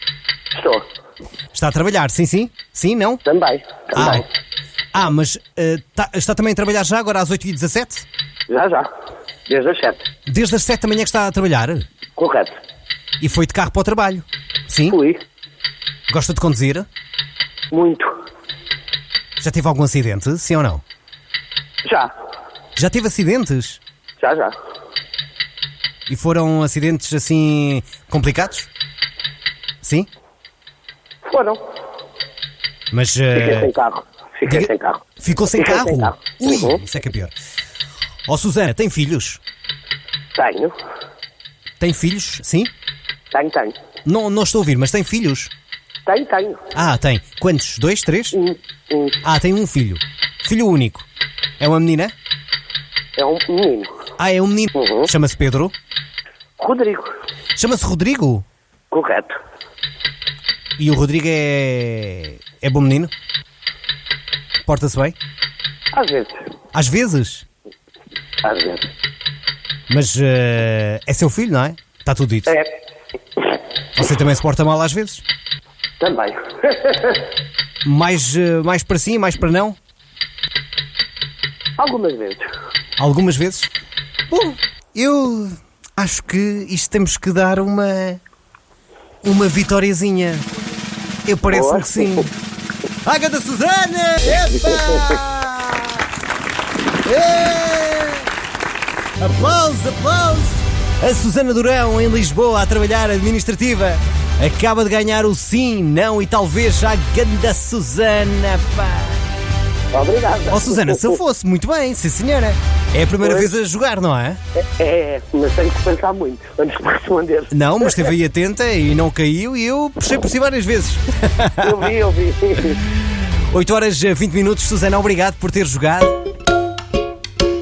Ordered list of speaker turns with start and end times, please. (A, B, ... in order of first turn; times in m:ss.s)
0:00.5-0:00.8 A
0:01.5-0:03.2 B
0:03.2-0:04.2 A
0:03.9-0:04.2 B
0:04.9-0:08.0 B
0:08.5-0:08.9 A
0:09.5-0:10.0 A
0:10.3-0:11.8 B
0:12.2-0:12.5 A
0:13.2-0:15.0 B
0:14.9-0:15.2 A
0:16.1-0:16.9 B
0:17.7-0:18.1 A
0:19.4-0:20.8 B
0:21.8-0:22.1 A
0:22.8-0:23.8 B
0:24.2-0:24.5 A
0:26.1-0:28.7 B
0:29.8-0:30.1 B
0:31.2-0:31.6 A
0:32.9-0:33.7 B
0:33.3-0:36.8 A
0:35.2-0:37.3 B
0:38.3-0:39.4 B
0:40.3-0:40.7 A
0:41.8-0:42.7 B
0:43.3-0:43.8 A
0:44.0-0:45.5 B
0:46.0-0:46.6 A
0:46.7-0:48.4 B
0:48.3-0:49.2 A
0:49.2-0:51.1 B
0:51.6-0:52.1 B
0:53.2-0:53.9 A
0:54.2-0:55.7 B
0:54.8-0:55.1 A
0:56.6-0:57.1 A
0:57.6-0:58.4 B
0:58.9-0:59.3 A
1:00.8-1:03.1 B
1:04.6-1:05.2 B
1:05.9-1:06.3 A
1:06.7-1:07.4 B
1:08.4-1:08.9 A
1:09.9-1:12.6 B
1:14.0-1:15.2 B
1:16.0-1:17.2 A
1:17.8-1:19.8 B
1:21.8-1:22.4 A
1:23.0-1:23.7 B
1:24.3-1:28.2 B
1:29.2-1:30.4 B
1:31.2-1:32.3 B
1:31.5-1:32.3 A
1:33.0-1:36.0 B
1:34.4-1:35.2 A
1:37.0-1:38.2 B
1:39.2-1:49.2 B
1:49.9-1:51.2 A
1:50.5-1:54.4 B
1:53.2-1:53.5 A
1:54.6-1:58.0 A
1:57.5-2:01.8 B
2:01.6-2:02.8 A
2:03.5-2:06.1 B